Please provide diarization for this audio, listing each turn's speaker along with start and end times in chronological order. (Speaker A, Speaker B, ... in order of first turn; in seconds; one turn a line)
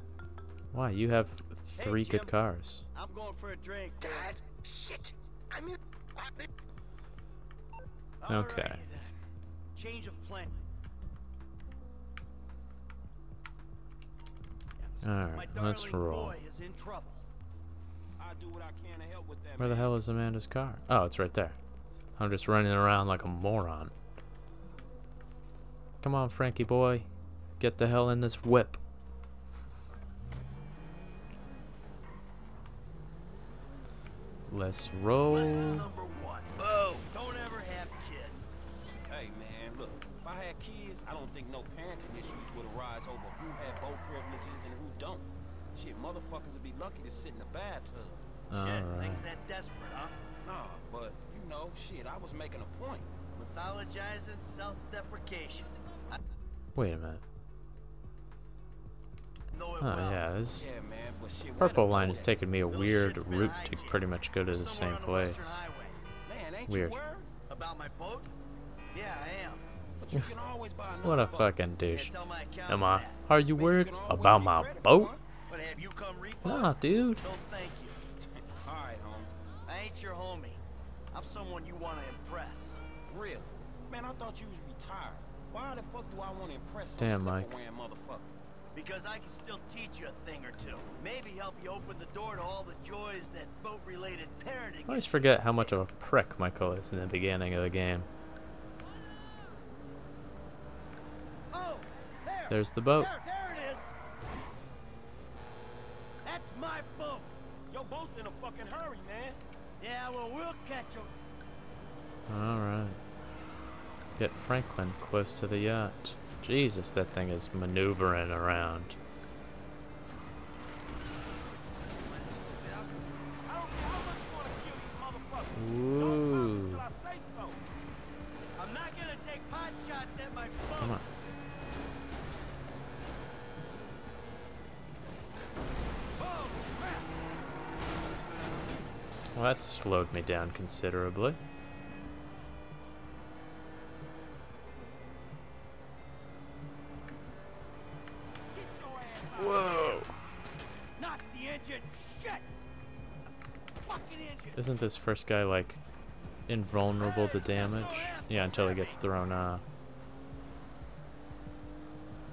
Speaker A: 0.7-2.8
Speaker B: 1.7-2.4
Speaker B: 2.9-4.3
Speaker C: 4.0-6.5
Speaker B: 8.2-9.1
Speaker A: 8.3-8.8
Speaker B: 9.7-10.6
Speaker B: 14.8-17.2
Speaker A: 15.0-16.4
Speaker D: 18.2-19.9
Speaker A: 19.6-21.6
Speaker A: 22.2-23.9
Speaker A: 26.0-27.1
Speaker A: 27.6-28.8
Speaker A: 34.5-35.9
Speaker B: 35.3-36.5
Speaker D: 36.6-37.0
Speaker B: 37.1-38.5
Speaker D: 38.9-48.2
Speaker A: 48.5-49.2
Speaker B: 48.5-50.2
Speaker D: 50.4-53.1
Speaker B: 53.3-56.2
Speaker A: 56.7-57.2
Speaker B: 59.5-60.2
Speaker A: 59.8-60.7
Speaker D: 60.5-62.3
Speaker A: 61.6-65.7
Speaker B: 62.7-66.0
Speaker D: 66.2-67.3
Speaker A: 66.7-67.0
Speaker B: 67.5-68.3
Speaker B: 68.9-69.7
Speaker D: 70.0-71.5
Speaker A: 71.0-72.2
Speaker B: 71.9-73.2
Speaker A: 72.7-75.1
Speaker D: 73.6-75.2
Speaker B: 75.5-78.0
Speaker A: 76.4-77.2
Speaker D: 78.2-79.3
Speaker B: 79.6-80.6
Speaker B: 81.1-82.8
Speaker D: 83.1-88.3
Speaker A: 87.0-87.5
Speaker B: 88.7-95.8
Speaker A: 94.9-98.1
Speaker B: 101.5-103.8
Speaker A: 102.5-103.1
Speaker B: 106.2-107.3
Speaker D: 107.7-109.4
Speaker B: 109.8-111.1
Speaker A: 112.3-113.0
Speaker A: 114.2-119.0
Speaker B: 121.8-123.3
Speaker D: 123.4-127.6
Speaker A: 125.5-126.8
Speaker B: 128.6-131.1
Speaker D: 136.2-137.1
Speaker A: 139.3-141.4
Speaker D: 148.5-150.0
Speaker A: 149.3-150.1
Speaker B: 151.0-152.4
Speaker B: 153.8-154.6
Speaker A: 154.6-155.8
Speaker A: 156.5-159.6
Speaker B: 157.0-159.1